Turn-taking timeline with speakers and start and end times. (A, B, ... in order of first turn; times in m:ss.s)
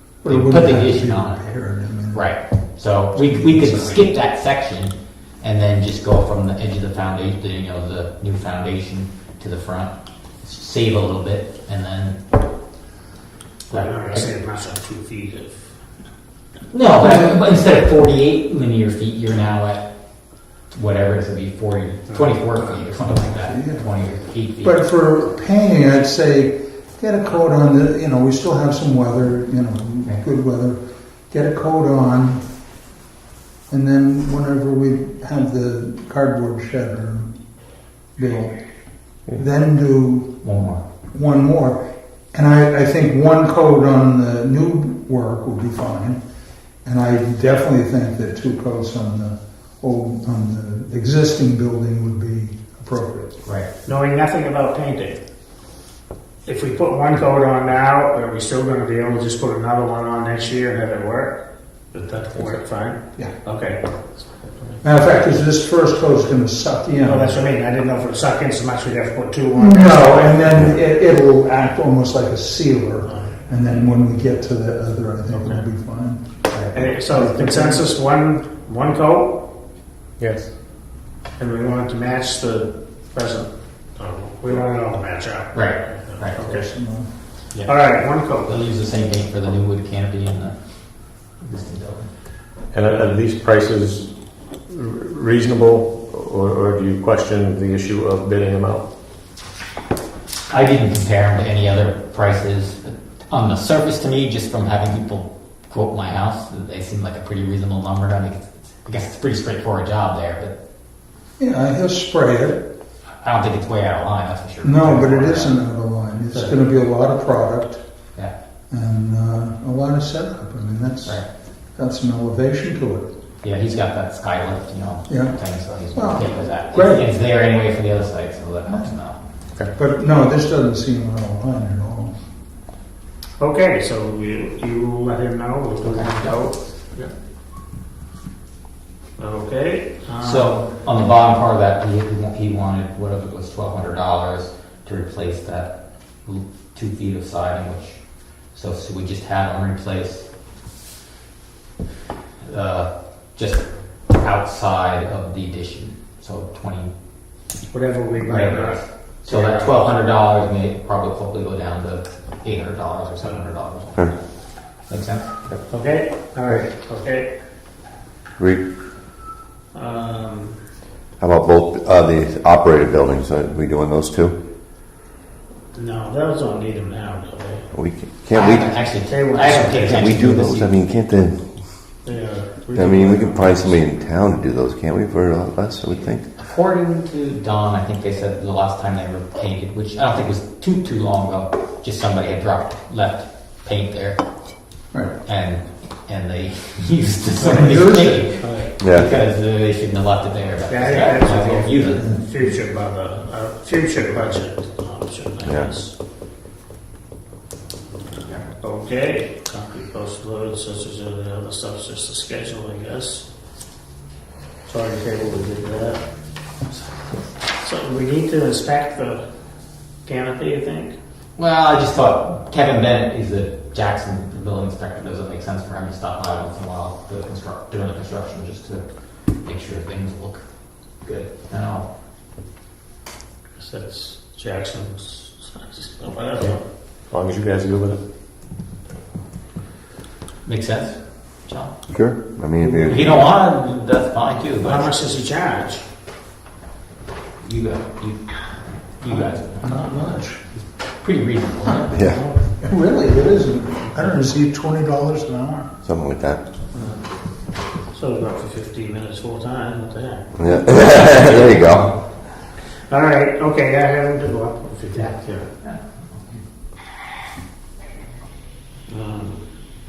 0:00.2-0:01.4 A
0:00.2-0:02.3 B
0:02.1-0:12.2 A
0:03.2-0:04.1 B
0:13.7-0:14.3 A
0:13.7-0:15.8 C
0:16.7-0:19.8 A
0:17.0-0:17.4 B
0:20.7-0:24.8 A
0:23.0-0:23.9 B
0:24.6-0:30.8 B
0:31.3-0:32.4 B
0:33.7-0:37.3 B
0:38.2-0:38.6 B
0:39.3-0:40.4 B
0:40.4-0:40.8 A
0:41.1-0:41.8 B
0:42.3-0:46.2 B
0:46.8-0:53.4 B
0:53.4-0:53.7 A
0:53.8-0:55.2 C
0:56.4-1:04.6 C
1:04.8-1:07.4 B
1:07.0-1:10.5 C
1:09.6-1:16.2 B
1:13.1-1:13.3 C
1:15.3-1:15.6 C
1:16.5-1:16.9 A
1:16.7-1:19.4 C
1:17.1-1:17.9 B
1:20.2-1:20.5 D
1:21.4-1:26.7 C
1:25.5-1:26.5 A
1:26.4-1:27.1 B
1:27.5-1:30.6 A
1:27.6-1:28.5 C
1:31.4-1:32.1 A
1:32.7-1:34.1 D
1:34.7-1:38.9 D
1:40.5-1:50.6 A
1:51.4-1:52.6 B
1:53.2-1:55.6 A
1:54.6-1:57.8 B
1:58.7-2:01.2 B
2:01.8-2:03.1 B
2:03.4-2:09.2 A
2:05.1-2:07.1 B
2:09.8-2:12.2 B
2:13.4-2:17.1 C
2:15.8-2:16.5 A
2:19.2-2:20.6 C
2:20.2-2:28.0 A
2:28.5-2:30.3 A
2:32.4-2:36.9 A
2:37.7-2:39.7 C
2:38.2-2:44.2 A
2:44.8-2:45.6 A
2:45.7-2:47.3 C
2:48.4-2:48.7 E
2:49.7-2:50.6 C
2:51.2-2:54.4 E
2:55.7-2:57.7 C
2:57.7-2:58.9 E
2:58.3-3:00.7 A
2:59.1-3:00.2 C
3:00.0-3:01.5 E
3:02.0-3:03.8 C
3:02.7-3:06.3 E
3:06.3-3:14.2 A
3:15.2-3:22.1 A
3:17.4-3:18.5 B
3:18.8-3:19.1 E
3:20.7-3:25.9 C
3:25.4-3:25.7 E
3:28.6-3:33.3 C
3:34.7-3:36.0 C
3:37.5-3:39.2 C
3:40.1-3:41.0 C
3:41.4-3:48.8 A
3:49.4-3:50.4 A
3:51.0-3:51.9 A
3:53.6-3:56.6 C
3:57.1-3:58.0 D
4:00.4-4:01.7 A
4:01.9-4:03.1 E
4:02.8-4:05.0 A
4:04.6-4:05.8 C
4:07.4-4:09.8 A
4:09.1-4:10.4 B
4:11.0-4:12.2 A
4:11.9-4:12.2 E
4:12.1-4:12.4 C
4:12.6-4:15.7 B
4:15.8-4:16.4 E
4:16.7-4:17.0 C
4:17.9-4:21.6 C
4:20.4-4:21.9 E
4:21.5-4:21.8 A
4:22.9-4:25.5 C
4:25.6-4:26.4 A
4:28.9-4:29.4 C